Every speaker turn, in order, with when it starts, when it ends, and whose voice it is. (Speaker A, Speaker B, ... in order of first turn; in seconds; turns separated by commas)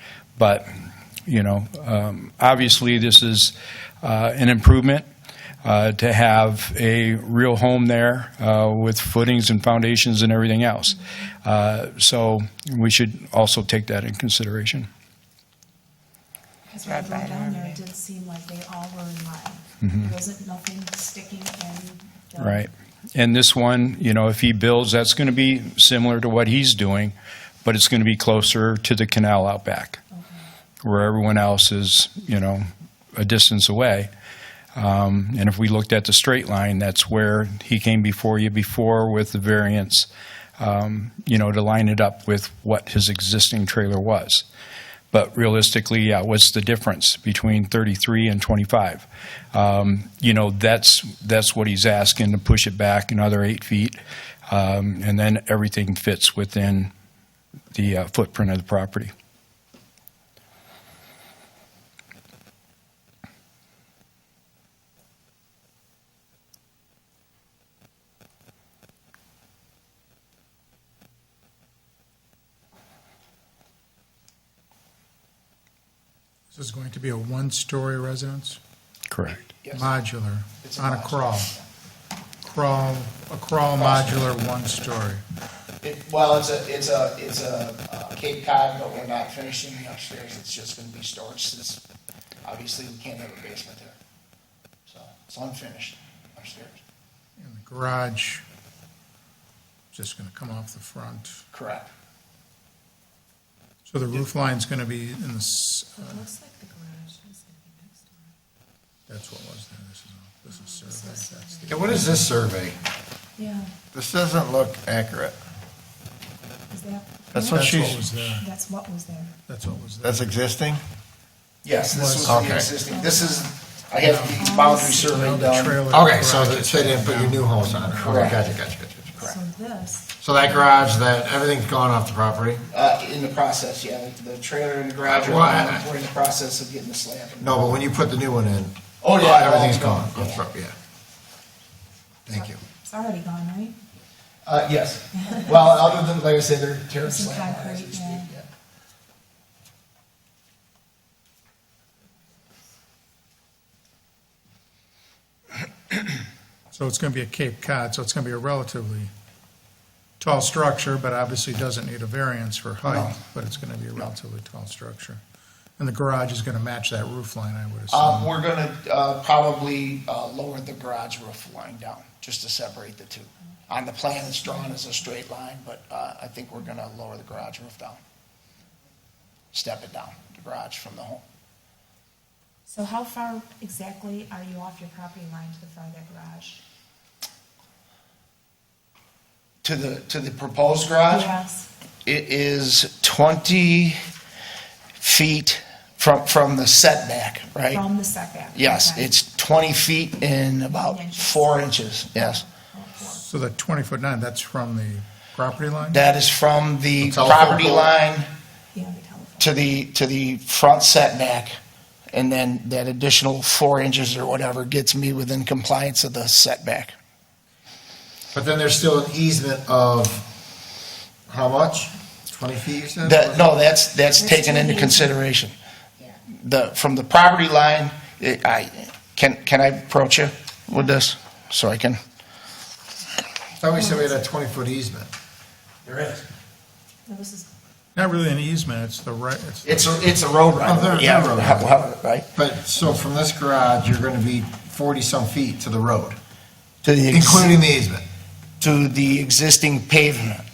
Speaker A: 0.4-0.7, Speaker A: 1.3-5.1, Speaker A: 5.6-14.9, Speaker B: 16.7-22.7, Speaker C: 17.0-17.3, Speaker A: 19.8-20.1, Speaker A: 22.4-30.0, Speaker B: 30.1-30.4, Speaker A: 30.8-34.1, Speaker A: 34.8-40.1, Speaker A: 40.6-44.5, Speaker A: 45.1-56.9, Speaker A: 57.7-59.1, Speaker D: 76.5-78.6, Speaker A: 79.1-79.5, Speaker C: 79.4-79.9, Speaker D: 79.7-81.5, Speaker C: 80.6-81.7, Speaker D: 82.4-85.2, Speaker C: 83.7-84.2, Speaker C: 85.8-91.8, Speaker C: 92.4-94.0, Speaker C: 94.9-96.8, Speaker D: 97.4-98.5, Speaker D: 99.9-101.4, Speaker C: 101.5-101.9, Speaker D: 103.9-106.2, Speaker B: 106.0-108.3, Speaker D: 109.1-112.3, Speaker B: 110.5-112.0, Speaker E: 111.7-112.8, Speaker B: 113.4-113.7, Speaker E: 113.9-115.4, Speaker B: 116.7-117.7, Speaker E: 117.3-118.1, Speaker D: 117.4-118.5, Speaker B: 118.4-119.3, Speaker D: 119.5-120.3, Speaker E: 120.0-120.8, Speaker C: 121.6-125.8, Speaker D: 121.9-122.6, Speaker E: 122.2-122.7, Speaker B: 122.9-123.4, Speaker D: 124.0-124.5, Speaker B: 124.4-125.2, Speaker D: 125.1-128.2, Speaker E: 125.9-129.1, Speaker C: 128.0-128.5, Speaker B: 129.2-130.1, Speaker E: 130.2-132.6, Speaker C: 132.7-137.6, Speaker E: 135.0-135.9, Speaker E: 137.4-140.8, Speaker C: 139.0-140.4, Speaker E: 142.2-142.6, Speaker B: 142.3-143.8, Speaker C: 144.4-148.4, Speaker B: 147.0-148.3, Speaker D: 156.7-159.1, Speaker D: 160.2-165.2, Speaker C: 162.8-163.2, Speaker D: 165.8-168.3, Speaker C: 167.9-178.0, Speaker C: 179.5-181.2, Speaker B: 182.7-186.6, Speaker C: 189.6-191.3, Speaker B: 191.1-191.7, Speaker C: 192.1-194.0, Speaker C: 195.0-197.8, Speaker B: 197.7-199.1, Speaker C: 198.6-202.5, Speaker B: 200.7-203.2, Speaker D: 203.1-206.0, Speaker C: 205.9-208.3, Speaker E: 207.0-207.9, Speaker B: 208.7-209.5, Speaker C: 209.4-211.6, Speaker C: 212.1-216.9, Speaker E: 218.3-220.2, Speaker E: 221.3-223.5, Speaker C: 223.0-232.0, Speaker B: 224.2-225.2, Speaker E: 233.6-235.1, Speaker B: 233.8-234.1, Speaker C: 235.8-236.3, Speaker B: 237.1-237.5, Speaker D: 237.9-239.9, Speaker C: 239.6-242.3, Speaker E: 240.6-241.8, Speaker E: 242.3-246.2, Speaker C: 246.8-247.6, Speaker E: 247.1-248.0, Speaker C: 248.6-250.4